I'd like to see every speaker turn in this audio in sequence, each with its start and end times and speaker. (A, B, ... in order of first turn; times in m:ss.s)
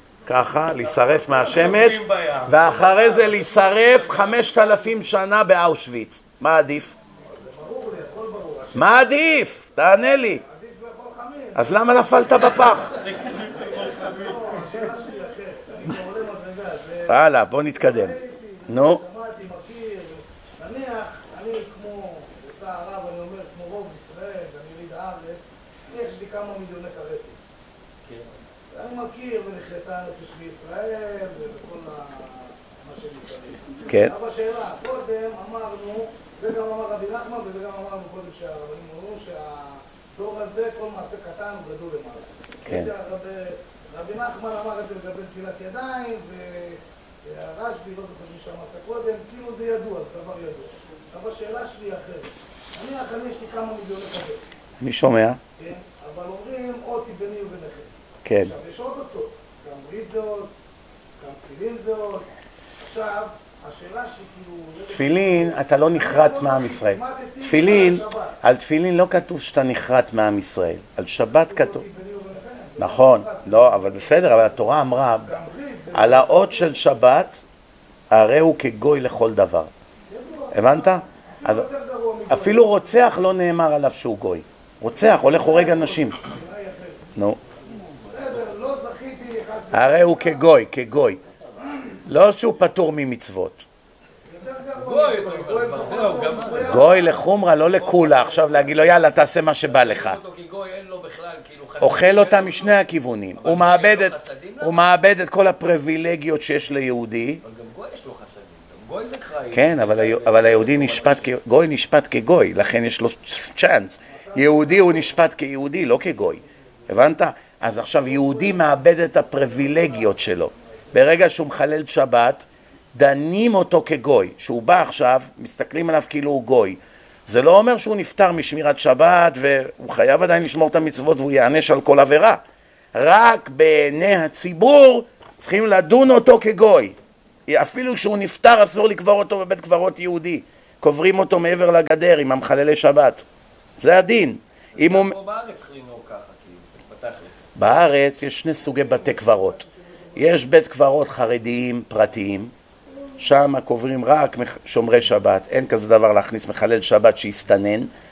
0:00.2-0:06.9 A
0:01.0-0:04.4 B
0:07.2-0:12.0 C
0:08.7-0:10.4 A
0:11.5-0:13.0 A
0:13.0-0:13.8 B
0:13.3-0:17.2 C
0:17.1-0:19.0 A
0:17.7-0:27.4 C
0:28.0-0:28.3 B
0:28.7-0:54.4 C
0:33.9-0:34.1 A
0:42.6-0:42.9 A
0:54.8-0:55.4 A
0:55.6-1:00.5 C
0:58.2-0:58.5 A
1:01.2-1:02.2 C
1:02.8-1:08.3 C
1:04.9-1:11.8 A
1:11.3-1:14.6 C
1:12.8-1:15.4 A
1:15.2-1:16.7 C
1:15.9-1:17.4 A
1:18.1-1:19.7 A
1:20.1-1:23.0 C
1:20.5-1:21.7 A
1:22.3-1:26.2 A
1:25.0-1:27.1 C
1:28.1-1:30.5 C
1:29.7-1:31.2 A
1:32.0-1:33.6 A
1:34.2-1:37.2 C
1:34.8-1:36.8 B
1:36.6-1:40.2 A
1:37.7-1:42.8 B
1:41.8-1:47.4 A
1:43.4-1:44.8 B
1:47.4-1:51.3 B
1:49.5-2:02.4 A
1:54.1-1:55.2 C
1:58.1-1:58.6 C
1:59.7-2:00.1 C
2:03.0-2:12.4 A
2:12.9-2:17.0 A
2:17.5-2:23.2 A
2:23.8-2:25.1 A
2:24.7-2:27.5 B
2:27.6-2:32.5 A
2:28.7-2:30.3 C
2:33.2-2:37.9 A